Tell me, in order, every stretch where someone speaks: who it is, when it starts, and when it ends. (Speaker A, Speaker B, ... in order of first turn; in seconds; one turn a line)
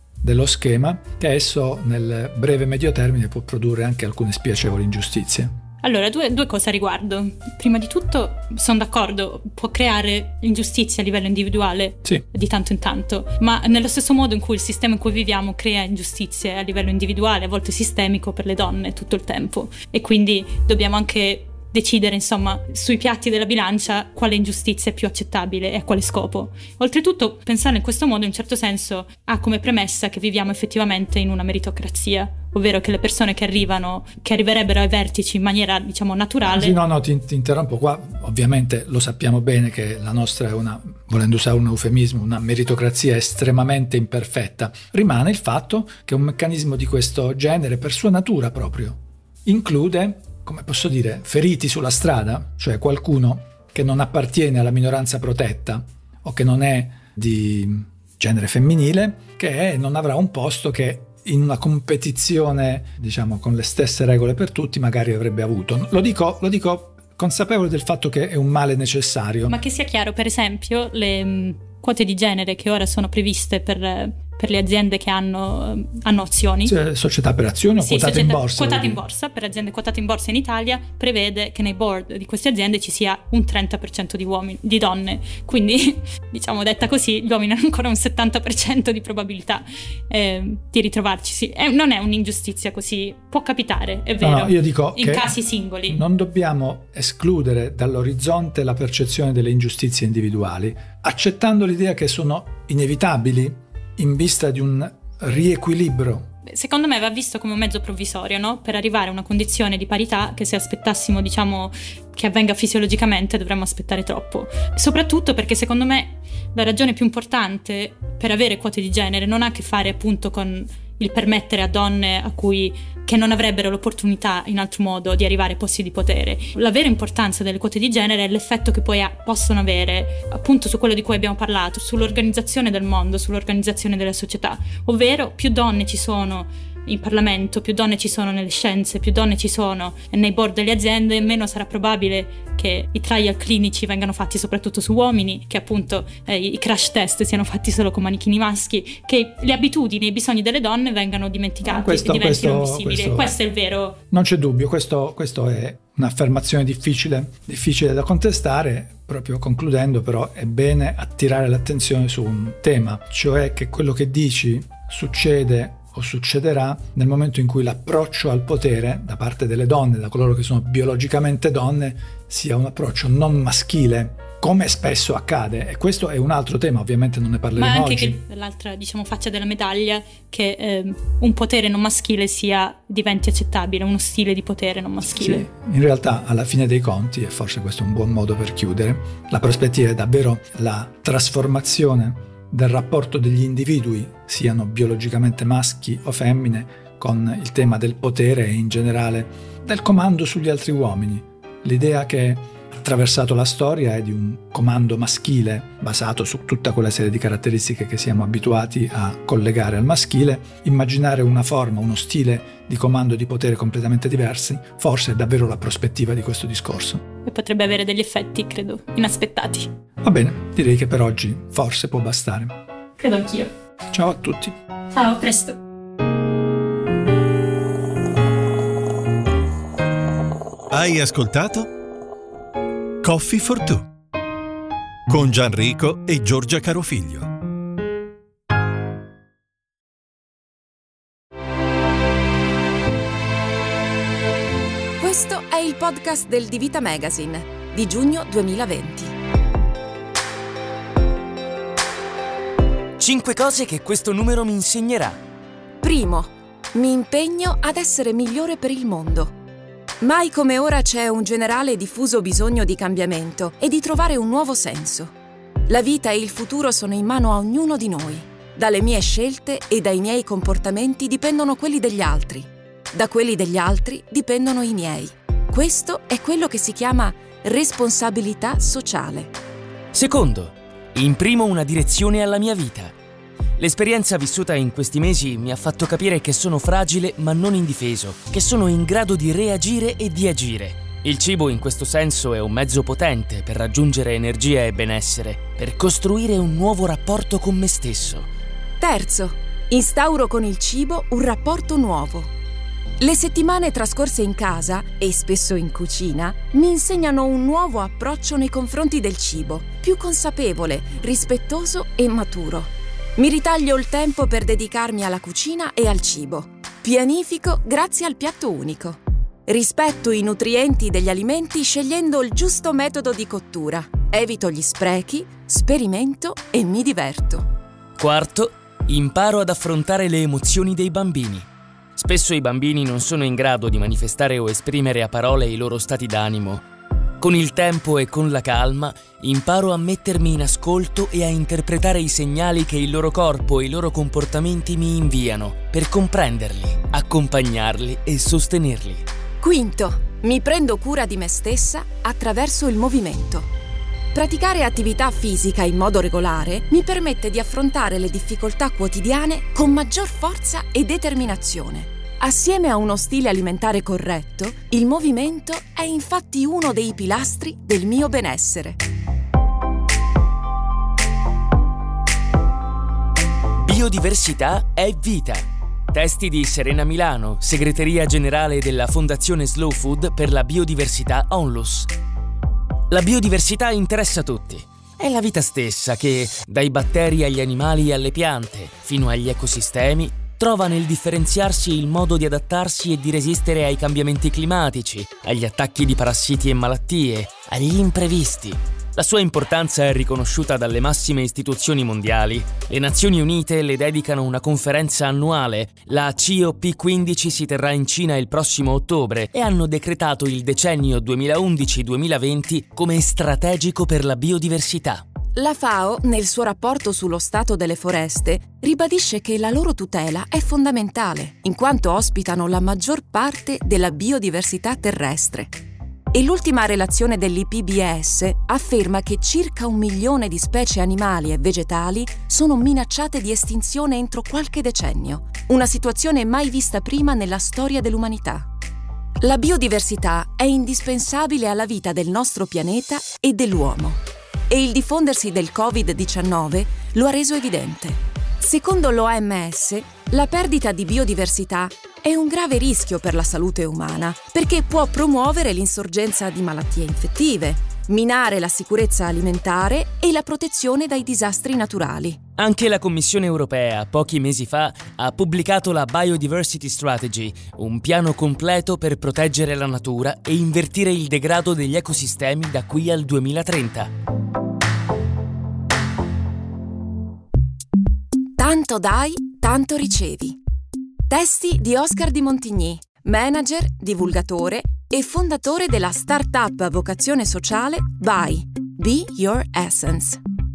Speaker A: 0.2-5.5
Speaker B: 5.8-36.8
Speaker A: 36.5-69.6
Speaker B: 69.5-76.8
Speaker A: 76.7-79.0
Speaker B: 77.8-96.0
Speaker A: 94.2-106.3
Speaker B: 106.4-154.0
Speaker A: 151.6-153.3
Speaker A: 154.1-178.2
Speaker B: 177.6-185.4
Speaker A: 185.0-217.0
Speaker B: 217.2-219.7
Speaker A: 220.0-222.6
Speaker B: 223.0-223.5
Speaker A: 223.9-224.6
Speaker B: 224.9-225.6
Speaker C: 230.7-231.7
Speaker C: 233.0-233.9
Speaker C: 235.1-237.3
Speaker D: 245.0-249.1
Speaker E: 253.0-255.2
Speaker D: 255.8-259.3
Speaker D: 260.0-265.1
Speaker D: 265.7-279.3
Speaker E: 279.9-282.9
Speaker E: 283.6-298.3
Speaker D: 298.8-302.3
Speaker D: 303.0-327.5
Speaker E: 328.0-336.6
Speaker E: 337.2-349.0
Speaker D: 349.4-353.5
Speaker D: 354.1-368.8
Speaker E: 373.6-381.9
Speaker E: 382.9-415.0
Speaker D: 415.3-425.6
Speaker D: 426.1-438.5
Speaker D: 439.2-462.2
Speaker E: 462.4-473.9
Speaker D: 478.4-480.4
Speaker D: 481.1-490.2